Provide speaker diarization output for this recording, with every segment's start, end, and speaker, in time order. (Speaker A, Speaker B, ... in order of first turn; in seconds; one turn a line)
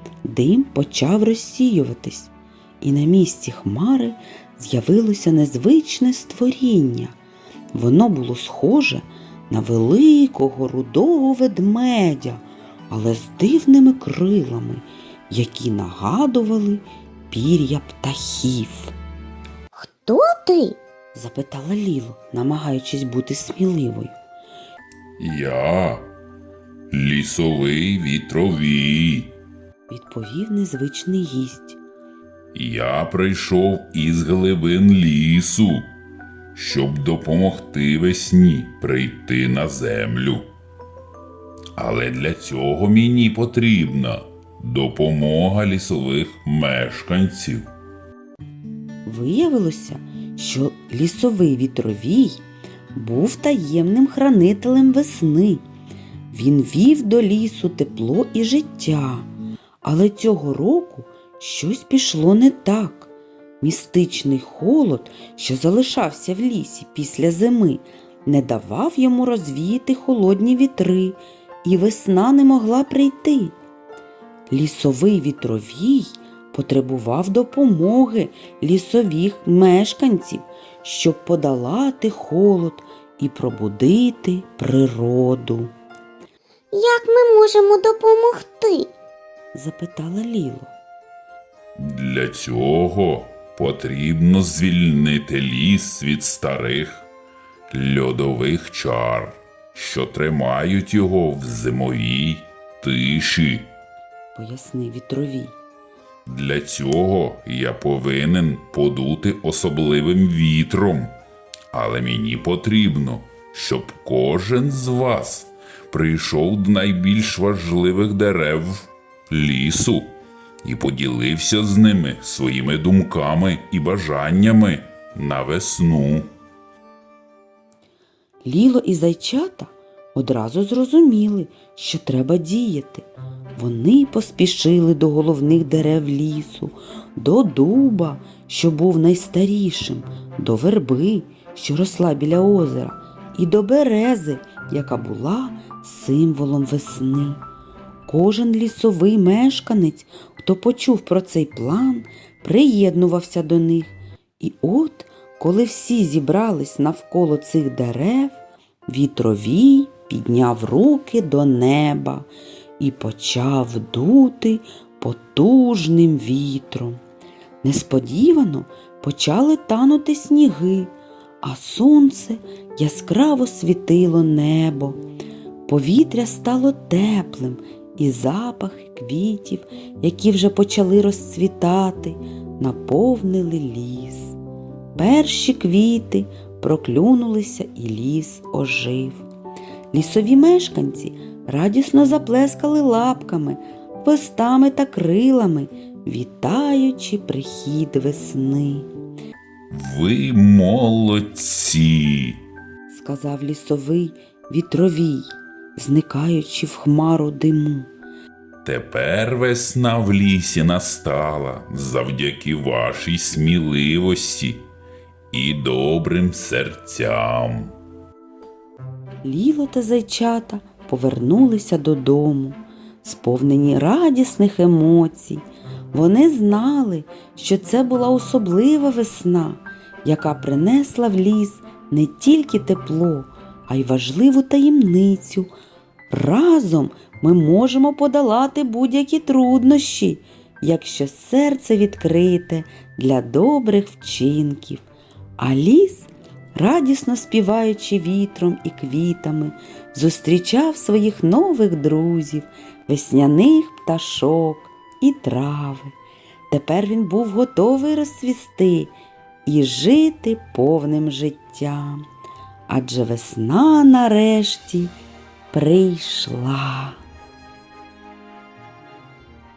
Speaker A: 0.2-7.1
Speaker A: 7.7-18.9
Speaker B: 19.7-20.8
Speaker A: 21.1-24.2
Speaker C: 25.2-26.1
Speaker C: 26.9-29.3
Speaker A: 29.9-31.8
Speaker C: 32.5-35.9
Speaker C: 36.5-40.4
Speaker C: 41.8-47.6
Speaker A: 49.1-52.4
Speaker A: 53.0-55.6
Speaker A: 56.3-59.3
Speaker A: 59.8-73.5
Speaker A: 74.5-85.7
Speaker B: 86.7-88.9
Speaker A: 89.5-90.7
Speaker C: 91.8-97.1
Speaker C: 97.7-103.7
Speaker A: 104.3-105.6
Speaker C: 106.3-111.1
Speaker C: 111.7-120.1
Speaker C: 120.7-126.3
Speaker A: 128.4-133.1
Speaker A: 133.6-147.4
Speaker A: 148.1-162.3
Speaker A: 162.8-167.0
Speaker A: 167.6-175.0
Speaker A: 175.7-184.4
Speaker A: 184.9-189.2
Speaker A: 189.9-198.9
Speaker C: 199.7-202.4
Speaker A: 202.9-207.9
Speaker C: 208.7-214.6
Speaker C: 215.3-217.7
Speaker A: 219.2-235.5
Speaker A: 236.1-244.8
Speaker A: 245.4-255.9
Speaker A: 256.5-258.9
Speaker A: 259.4-262.0
Speaker A: 262.7-264.9
Speaker A: 265.5-267.0